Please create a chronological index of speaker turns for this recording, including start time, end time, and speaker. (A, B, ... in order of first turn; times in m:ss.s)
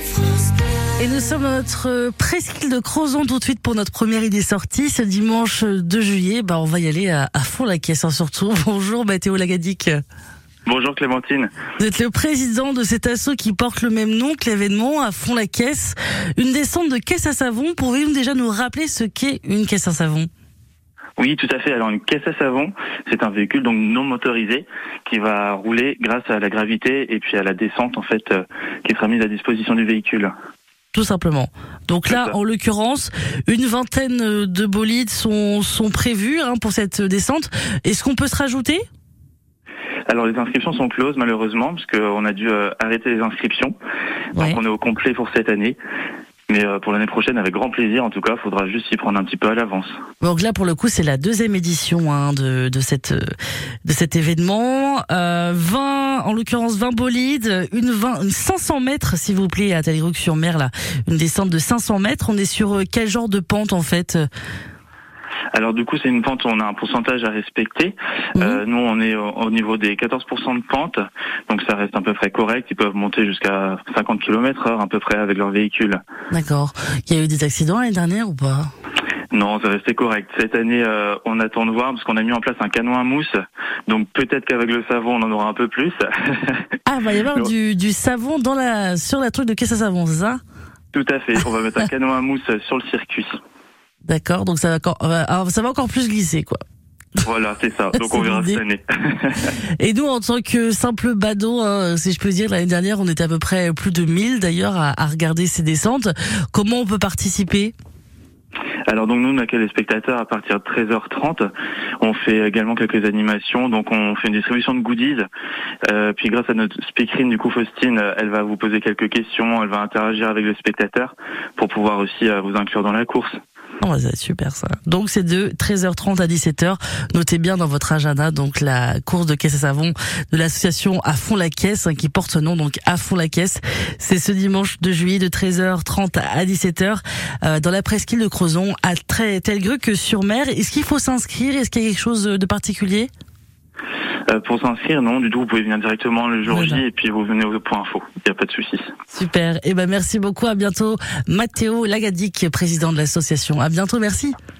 0:01.0-0:10.0 A
0:10.6-0:11.5 B
0:11.8-0:20.3 A
0:21.2-0:30.3 B
0:30.9-0:38.8 A
0:32.1-0:32.3 B
0:40.1-0:43.7 B
0:44.4-0:45.8 B
0:46.5-0:50.0 B
0:50.2-0:53.3 A
0:53.8-1:04.3 A
1:05.5-1:16.0 B
1:16.3-1:18.7 A
1:19.3-1:23.4 B
1:23.9-1:26.7 B
1:26.8-1:30.4 A
1:30.9-1:33.3 B
1:34.0-1:36.6 A
1:37.2-1:39.5 B
1:37.9-1:38.6 A
1:39.8-1:47.7 A
1:48.9-1:55.2 B
1:55.9-2:03.4 B
2:03.8-2:23.1 A
2:24.3-2:28.9 B
2:26.5-2:26.8 A
2:29.1-2:34.4 A